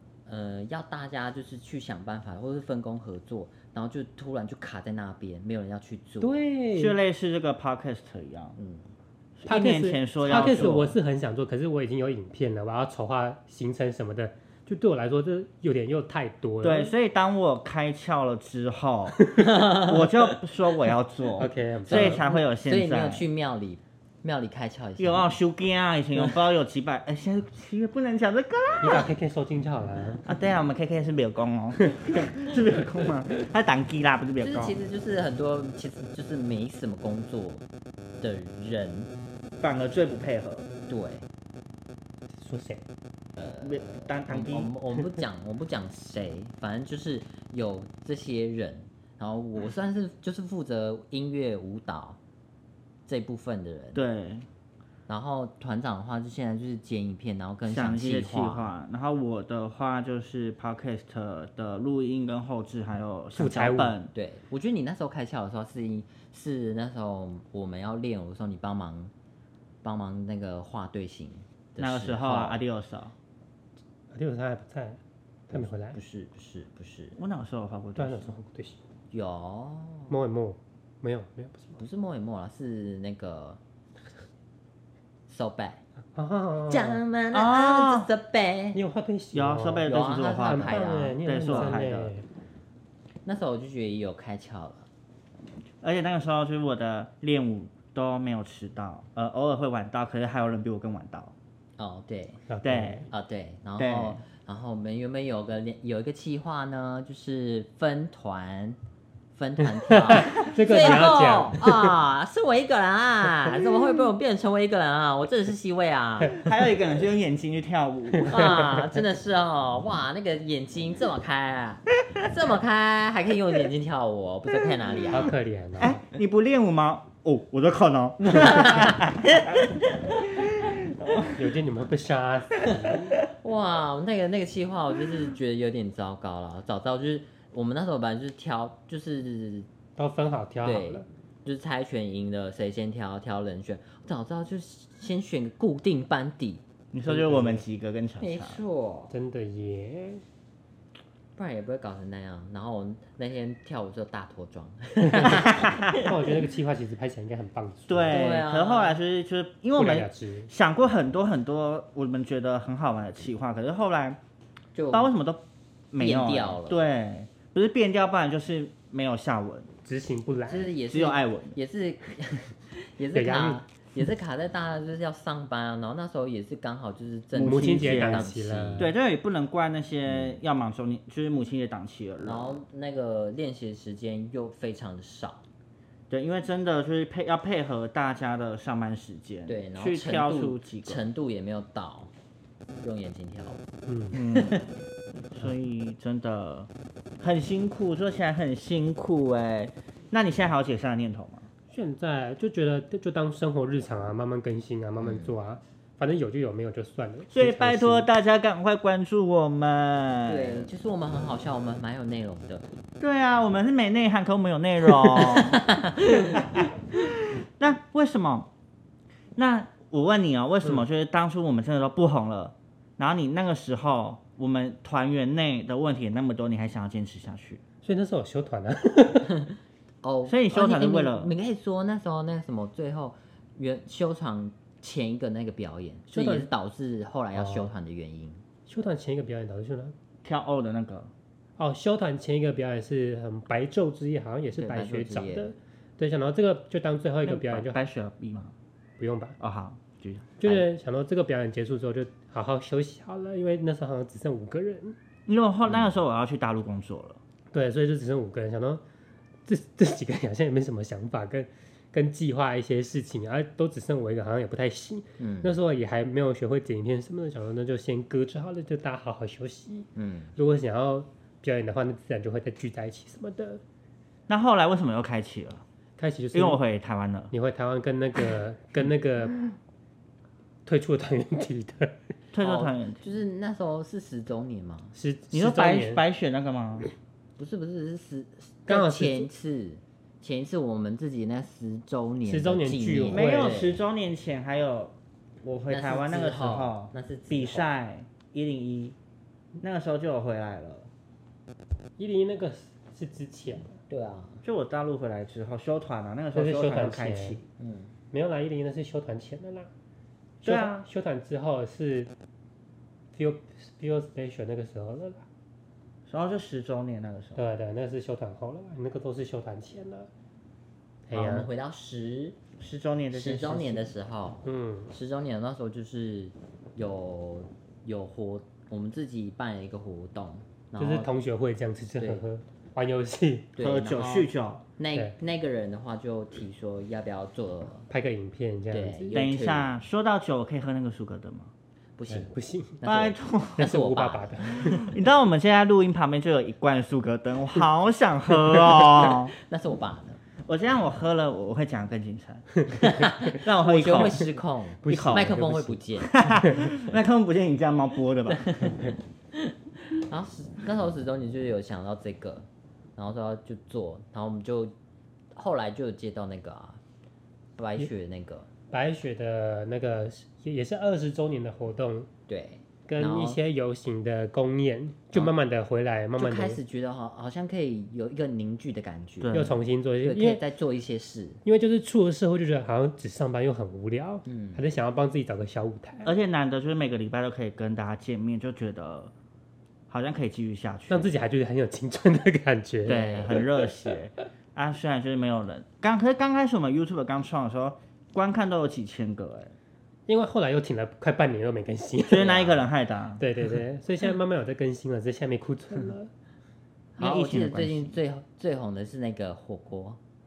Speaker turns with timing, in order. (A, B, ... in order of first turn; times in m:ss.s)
0:00.2-0:06.4 A
0:06.2-0:07.0 B
0:06.7-0:08.6 C
0:08.6-0:08.8 A
0:09.4-0:11.0 C
0:09.4-0:16.9 B
0:10.3-0:10.7 A
0:16.6-0:23.2 C
0:19.4-0:20.2 A
0:21.4-0:22.2 B
0:21.8-0:25.3 A
0:25.0-0:29.1 C
0:28.8-0:30.3 B
0:30.2-0:34.7 C
0:34.4-0:37.6 A
0:38.2-0:39.1 A
0:39.6-0:40.7 C
0:40.9-0:41.2 A
0:42.4-0:42.8 B
0:43.4-0:52.2 A
0:43.6-0:44.7 C
0:53.1-0:54.0 A
0:53.9-0:54.5 C
0:55.1-0:58.7 A
0:57.6-1:04.1 C
1:03.3-1:03.9 B
1:04.1-1:09.1 A
1:09.8-1:12.6 A
1:11.8-1:13.1 C
1:14.1-1:15.0 B
1:15.5-1:16.0 B
1:15.5-1:17.2 A
1:17.2-1:18.3 C
1:18.0-1:18.8 B
1:19.1-1:20.1 A
1:20.1-1:21.8 B
1:21.8-1:23.6 A
1:25.3-1:25.8 A
1:26.1-1:27.0 B
1:26.7-1:28.8 A
1:27.3-1:28.1 C
1:28.7-1:32.2 B
1:29.3-1:32.1 C
1:29.8-1:31.8 A
1:33.2-1:34.9 A
1:35.8-1:41.3 C
1:41.8-1:42.4 A
1:42.5-1:43.0 B
1:42.6-1:43.0 C
1:43.1-1:48.8 A
1:43.8-1:44.2 C
1:49.3-1:56.4 A
1:49.9-1:52.0 B
1:50.4-1:51.1 C
1:56.3-1:58.5 C
1:58.2-1:58.9 B
1:58.3-2:05.3 A
2:05.1-2:06.0 B
2:05.8-2:11.4 C
2:08.2-2:09.0 A
2:11.3-2:13.2 B
2:13.3-2:19.7 A
2:20.0-2:21.0 B
2:20.6-2:26.6 A
2:26.9-2:28.6 C
2:27.0-2:27.6 B
2:28.2-2:29.1 A
2:29.1-2:30.2 B
2:31.4-2:36.1 A
2:35.1-2:38.2 B
2:35.5-2:36.1 C
2:37.9-2:44.2 C
2:38.1-2:39.0 A
2:39.8-2:40.5 B
2:44.7-2:45.1 A
2:44.9-2:49.7 C
2:46.0-2:46.8 A
2:49.8-2:50.7 B
2:50.4-2:58.9 A
2:50.9-2:51.6 C
2:53.1-2:53.6 B
2:57.3-3:02.6 C
2:57.4-2:58.9 B
3:02.2-3:05.4 A
3:06.1-3:11.0 C
3:09.5-3:12.1 A
3:12.8-3:13.6 A
3:13.9-3:14.2 B
3:14.1-3:14.7 C
3:15.3-3:16.7 C
3:17.2-3:21.5 C
3:21.7-3:28.1 B
3:25.0-3:25.3 A
3:27.3-3:30.7 C
3:30.2-3:32.7 A
3:33.0-3:38.5 C
3:35.1-3:36.5 A
3:39.4-3:47.6 C
3:47.8-3:49.4 B
3:50.0-3:58.4 A
3:50.2-3:51.3 C
3:56.1-3:56.5 B
3:57.4-3:57.7 B
3:58.7-3:59.9 B
4:00.2-4:01.1 C
4:01.6-4:07.8 B
4:04.5-4:05.5 A
4:07.2-4:08.5 C
4:09.0-4:09.4 B
4:09.4-4:10.3 C
4:10.4-4:15.0 B
4:15.3-4:17.2 C
4:17.5-4:18.8 B
4:19.4-4:33.6 B
4:25.2-4:25.5 A
4:30.0-4:30.3 A
4:34.3-4:35.6 C
4:36.0-4:36.6 B
4:36.3-4:37.3 C
4:37.3-4:39.4 B
4:40.6-4:41.9 B
4:42.3-4:43.0 C
4:42.4-4:44.9 A
4:45.0-4:46.0 B
4:45.3-4:46.9 C
4:47.4-4:53.8 A
4:48.7-4:49.3 B
4:52.3-4:53.6 B
4:53.1-4:58.9 C
4:55.7-4:57.7 A
4:59.6-5:00.9 C
5:02.0-5:03.8 B
5:03.9-5:04.4 A
5:04.4-5:07.4 C
5:06.3-5:07.4 B
5:07.6-5:07.9 A
5:08.1-5:09.7 B
5:10.4-5:10.8 C
5:10.4-5:12.1 B
5:13.1-5:15.2 B
5:16.1-5:17.4 C
5:17.4-5:20.1 B
5:21.1-5:21.5 B
5:21.1-5:22.4 A
5:22.6-5:23.9 C
5:23.1-5:31.1 A
5:24.4-5:24.9 B
5:30.8-5:33.5 B
5:33.6-5:37.9 A
5:33.6-5:34.6 C
5:37.9-5:39.1 B
5:38.7-5:39.7 A
5:39.1-5:41.5 C
5:42.0-5:44.8 A
5:42.1-5:42.8 B
5:42.8-5:43.6 C
5:43.6-5:44.9 B
5:44.6-5:49.3 C
5:49.4-5:50.2 A
5:50.4-5:54.3 C
5:52.7-5:56.5 A
5:54.8-5:55.9 B
5:54.8-5:55.4 C
5:56.0-5:58.9 C
5:58.3-6:04.7 A
6:05.3-6:06.8 A
6:07.6-6:08.5 A
6:08.7-6:12.1 B
6:12.3-6:13.4 A
6:12.9-6:16.6 B
6:16.2-6:21.4 A
6:19.2-6:19.6 C
6:19.3-6:20.4 B
6:21.4-6:26.1 B
6:24.2-6:24.6 A
6:26.0-6:29.1 C
6:29.9-6:31.2 C
6:30.9-6:33.5 B
6:32.8-6:39.5 C
6:32.9-6:33.4 A
6:40.1-6:42.3 B
6:42.1-6:43.2 C
6:42.2-6:42.6 A
6:43.2-6:46.1 B
6:47.0-6:50.0 A
6:47.0-6:48.0 C